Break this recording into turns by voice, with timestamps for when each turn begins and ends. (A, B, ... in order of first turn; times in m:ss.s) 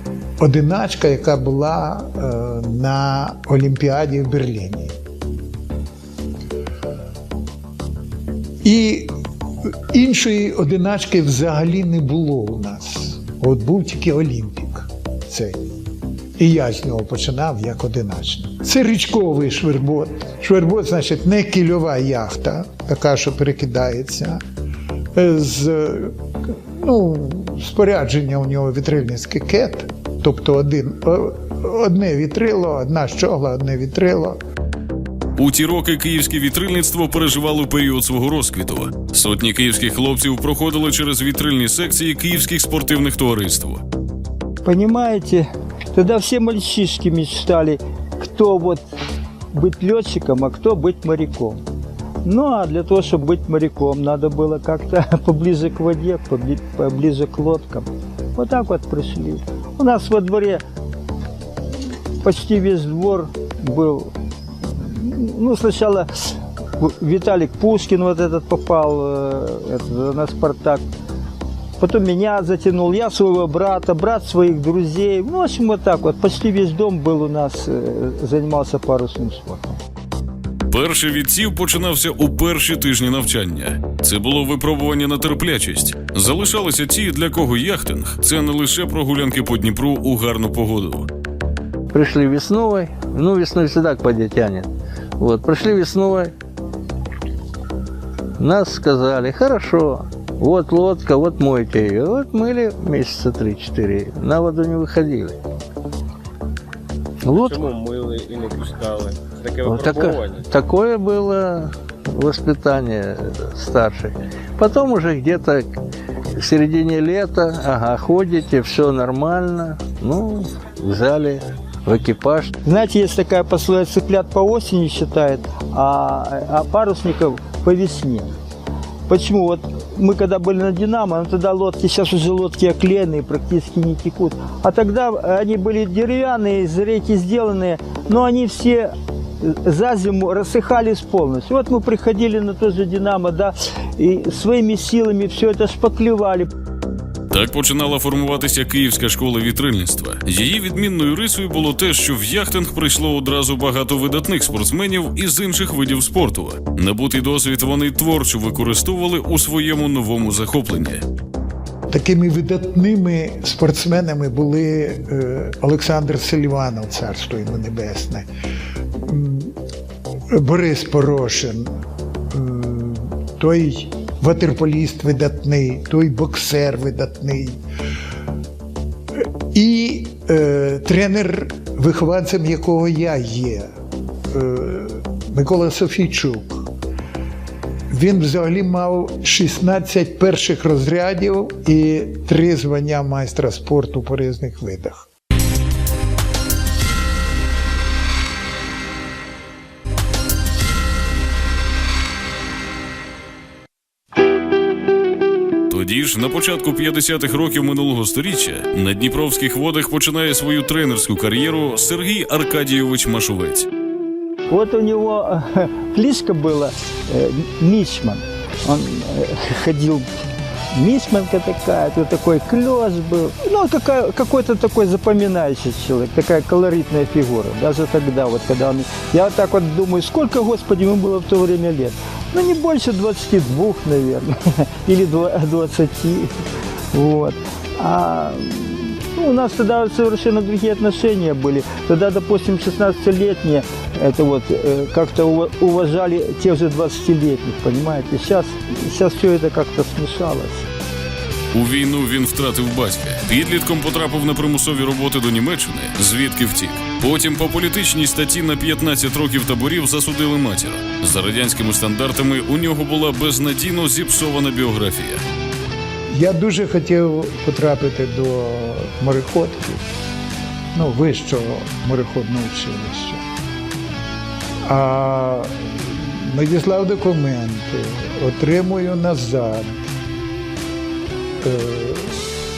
0:00.4-0:05.0 A
0:08.6-0:09.1 A
0:09.7-0:15.6 A
0:16.4-0:24.4 A
0:25.1-0:34.4 A
0:35.4-0:43.8 B
0:44.6-0:48.8 C
0:49.5-0:51.6 C
0:52.2-1:00.6 C
1:02.2-1:04.1 C
1:04.8-1:06.1 C
1:06.8-1:10.8 C
1:11.8-1:19.8 C
1:20.7-1:31.1 B
1:31.9-1:36.3 D
1:38.4-1:45.4 D
1:47.2-1:47.6 D
1:47.3-1:50.4 E
1:49.6-1:55.8 D
1:56.4-2:02.5 D
2:02.6-2:08.3 C
2:09.1-2:26.5 C
2:27.3-2:41.0 B
2:41.9-2:48.3 A
2:49.0-2:49.6 A
2:50.3-2:51.7 A
2:52.3-2:57.6 A
2:59.2-3:03.7 A
3:04.3-3:06.7 A
3:07.9-3:15.1 A
3:25.7-3:33.7 B
3:34.5-3:40.1 C
3:40.7-3:56.3 C
3:56.9-4:10.7 C
4:11.5-4:25.2 B
4:26.1-4:29.8 A
4:30.7-4:33.2 A
4:34.7-4:39.9 A
4:41.4-4:42.1 A